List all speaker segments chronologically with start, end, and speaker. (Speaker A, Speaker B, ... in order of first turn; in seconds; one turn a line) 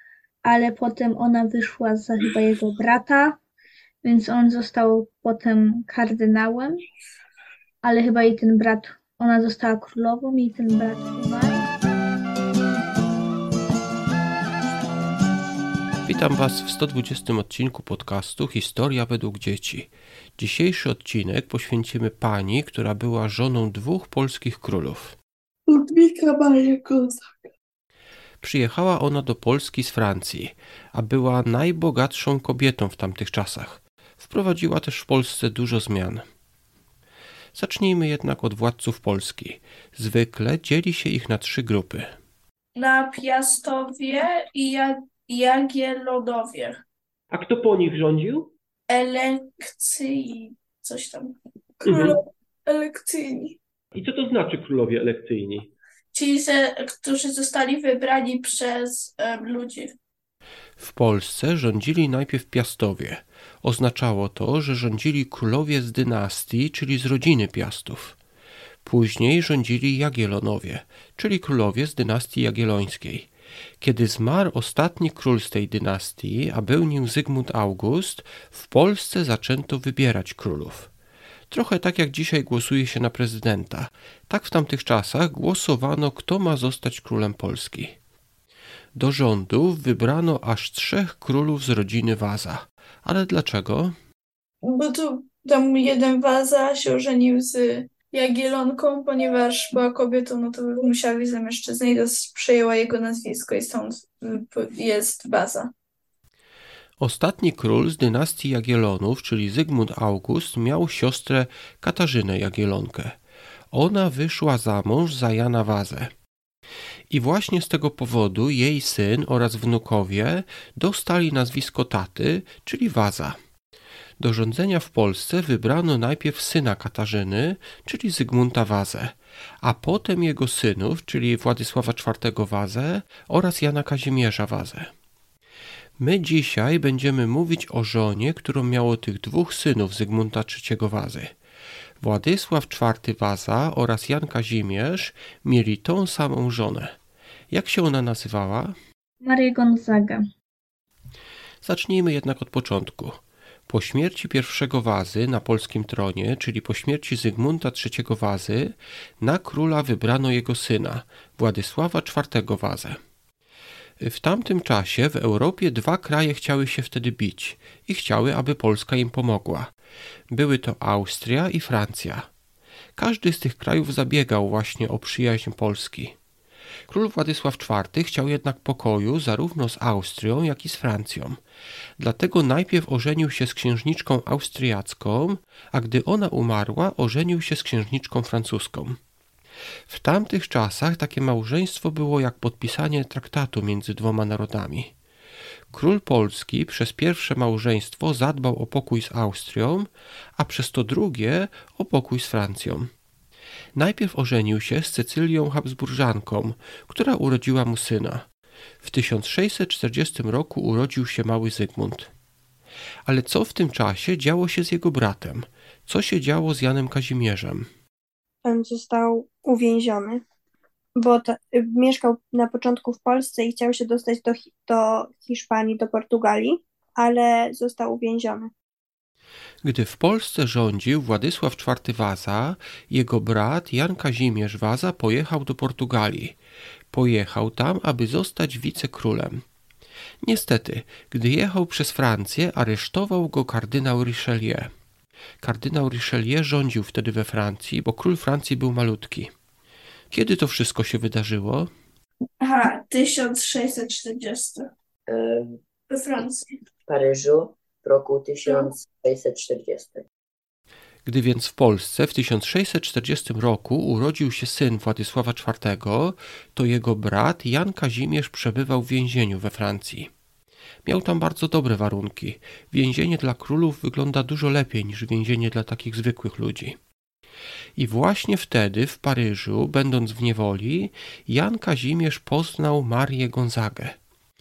Speaker A: 0.4-3.4
Speaker A: 4.0-6.8
Speaker A: 7.8-11.7
Speaker B: 16.1-25.2
Speaker B: 28.4-36.2
Speaker B: 37.5-42.1
Speaker C: 42.8-46.8
Speaker D: 47.3-48.5
Speaker C: 48.9-53.6
Speaker D: 51.9-52.2
Speaker D: 53.9-55.7
Speaker C: 56.1-59.9
Speaker B: 60.8-68.2
Speaker B: 68.8-73.3
Speaker B: 73.8-80.9
Speaker B: 81.5-88.0
Speaker B: 89.0-94.0
Speaker C: 94.6-105.7
Speaker B: 107.0-113.2
Speaker B: 113.7-116.1
Speaker B: 117.1-123.4
Speaker B: 124.2-134.9
Speaker B: 136.0-141.3
Speaker B: 142.0-146.9
Speaker B: 147.5-148.8
Speaker A: 149.2-150.2
Speaker B: 151.6-163.0
Speaker B: 164.0-169.7
Speaker B: 170.3-172.3
Speaker B: 173.0-176.2
Speaker B: 176.9-181.4
Speaker B: 182.0-189.0
Speaker B: 189.9-194.9
Speaker B: 195.7-202.9
Speaker B: 203.8-208.3
Speaker B: 208.8-212.1
Speaker B: 213.1-217.7
Speaker E: 218.4-220.2
Speaker E: 221.0-228.5
Speaker B: 229.6-236.4
Speaker B: 236.9-239.4
Speaker B: 240.2-244.7
Speaker B: 245.4-249.3
Speaker B: 250.1-251.7
Speaker C: 252.4-254.7
Speaker F: 255.1-255.6
Speaker C: 255.9-256.4
Speaker F: 256.9-260.1
Speaker C: 258.5-258.7
Speaker B: 261.1-270.1
Speaker B: 270.9-276.8
Speaker B: 277.8-284.0